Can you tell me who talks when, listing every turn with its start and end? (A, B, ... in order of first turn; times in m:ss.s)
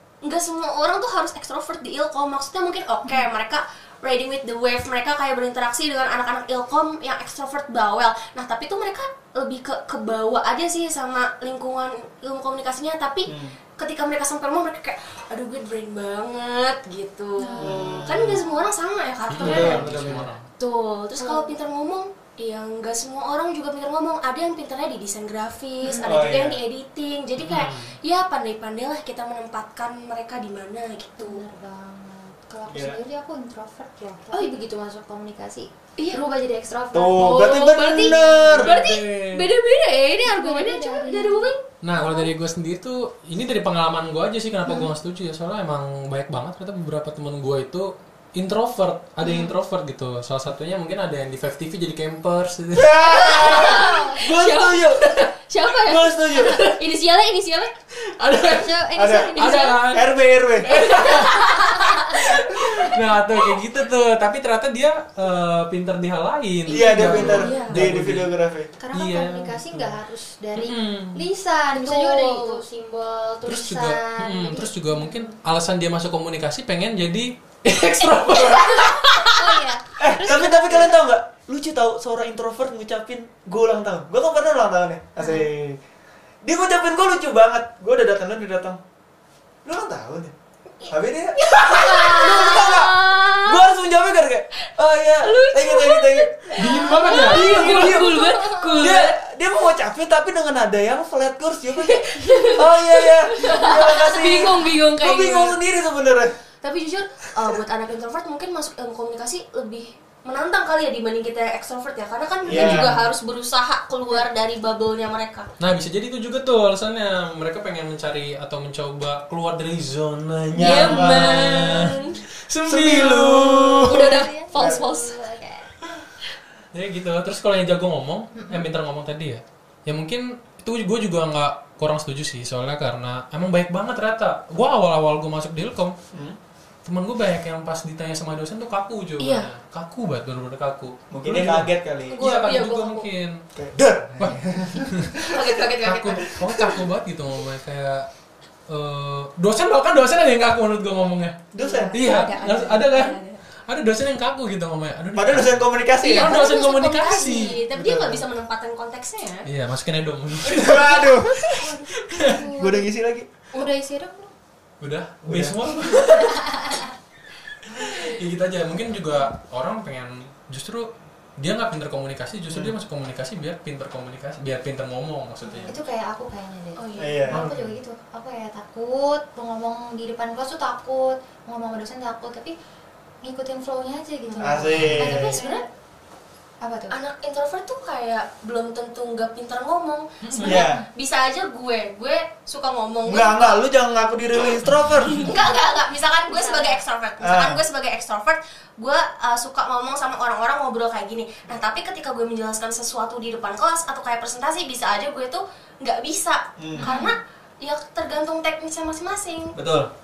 0:00.2-0:31.4 A
0:13.3-0:13.6 B
0:17.4-0:18.6 C
0:17.6-0:18.4 B
0:19.3-0:20.5 D
0:19.4-0:20.3 B
0:21.2-0:21.6 C
0:26.0-0:26.6 B
0:27.4-0:27.9 D
0:31.2-0:38.5 C
0:32.7-0:33.0 B
0:36.0-0:36.2 A
0:36.9-0:38.8 B
0:37.1-0:41.6 A
0:38.4-0:39.5 D
0:40.2-0:42.3 C
0:41.8-0:53.1 D
0:44.6-0:44.9 C
0:49.2-0:49.5 C
0:52.7-0:55.1 B
0:53.0-0:57.7 A
0:53.4-0:54.2 C
0:55.8-0:56.6 B
0:58.0-0:58.8 D
0:58.4-1:00.0 C
0:59.0-1:01.3 B
0:59.4-1:00.1 D
1:00.6-1:02.9 A
1:00.9-1:01.3 D
1:01.2-1:02.3 C
1:02.8-1:08.3 D
1:06.7-1:08.7 B
1:06.7-1:07.6 C
1:06.9-1:07.8 A
1:08.8-1:15.3 C
1:08.9-1:10.0 D
1:10.6-1:11.3 D
1:11.7-1:12.6 A
1:13.5-1:19.6 D
1:18.5-1:19.0 A
1:19.3-1:21.0 C
1:20.0-1:25.8 B
1:25.2-1:25.5 C
1:26.4-1:28.8 B
1:29.6-1:30.3 B
1:30.9-1:36.5 B
1:31.4-1:33.6 A
1:35.2-1:39.2 A
1:36.5-1:38.1 D
1:37.2-1:38.2 B
1:37.9-1:38.9 C
1:38.8-1:46.4 B
1:41.9-1:45.6 A
1:46.6-1:55.5 A
1:52.4-1:53.0 B
1:52.5-1:52.9 D
1:55.6-2:04.2 D
2:00.5-2:02.0 B
2:00.6-2:02.2 A
2:02.7-2:03.9 B
2:03.8-2:05.2 A
2:03.8-2:05.7 C
2:06.7-2:16.0 D
2:08.4-2:08.7 C
2:16.1-2:16.4 B
2:16.8-2:23.5 D
2:19.2-2:19.5 A
2:21.1-2:22.2 B
2:22.1-2:23.1 A
2:23.6-2:25.4 B
2:24.2-2:25.2 D
2:25.2-2:26.5 A
2:25.8-2:28.1 D
2:28.7-2:37.6 D
2:31.5-2:32.0 B
2:31.6-2:32.6 C
2:31.9-2:33.4 A
2:35.2-2:36.4 B
2:36.0-2:39.5 A
2:36.1-2:37.6 C
2:37.7-2:38.2 B
2:39.5-2:42.4 D
2:40.4-2:41.6 B
2:41.5-2:42.9 C
2:42.5-2:43.3 B
2:43.5-2:44.3 C
2:44.8-2:46.6 D
2:45.2-2:45.6 B
2:46.0-2:46.8 C
2:47.7-2:55.8 D
2:55.6-3:02.6 C
2:56.8-2:57.3 A
2:57.0-2:57.6 B
2:57.3-2:57.7 D
3:03.2-3:05.7 C
3:04.3-3:05.7 A
3:04.4-3:05.4 B
3:04.7-3:05.2 D
3:06.6-3:07.0 C
3:06.9-3:13.6 A
3:10.2-3:10.7 D
3:10.4-3:10.8 B
3:13.1-3:15.3 B
3:15.2-3:29.6 A
3:16.3-3:16.8 C
3:17.2-3:17.6 B
3:26.6-3:26.9 B
3:26.8-3:27.2 C
3:29.6-3:29.9 B